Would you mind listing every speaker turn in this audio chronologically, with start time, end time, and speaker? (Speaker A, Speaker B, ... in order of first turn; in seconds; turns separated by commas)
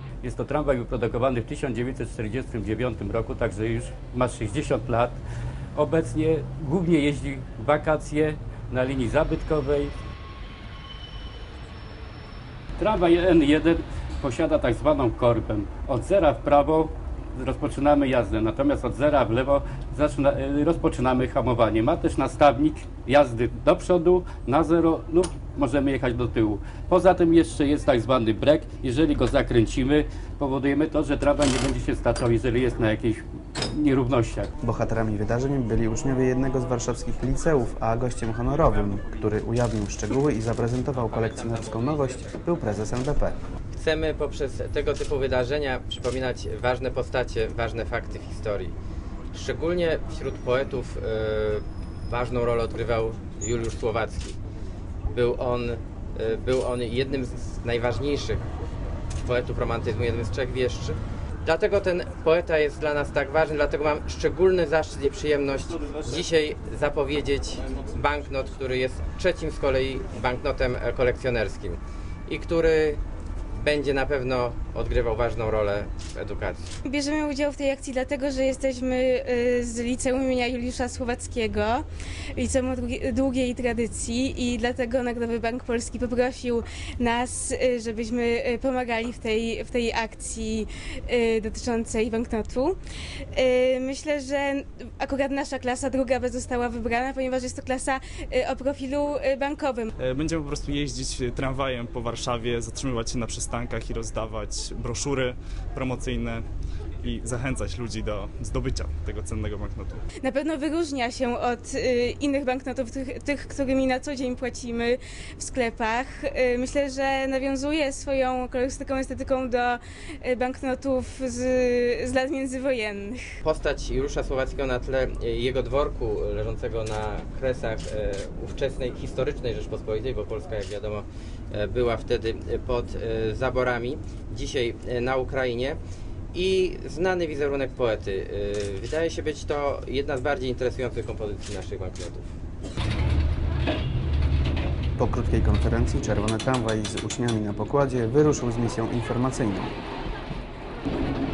Speaker A: 0.2-5.2, Speaker A: 5.8-9.9, Speaker A: 12.8-34.5, Speaker B: 34.6-43.4, Speaker C: 41.0-42.3, Speaker C: 43.8-48.8, Speaker C: 49.3-54.4, Speaker C: 55.1-58.5, Speaker C: 59.2-73.0, Speaker C: 73.5-76.7, Speaker D: 76.8-99.9, Speaker E: 100.0-106.4, Speaker E: 107.0-110.0, Speaker D: 110.2-123.3, Speaker C: 123.4-135.8, Speaker C: 136.3-142.3, Speaker B: 145.0-149.7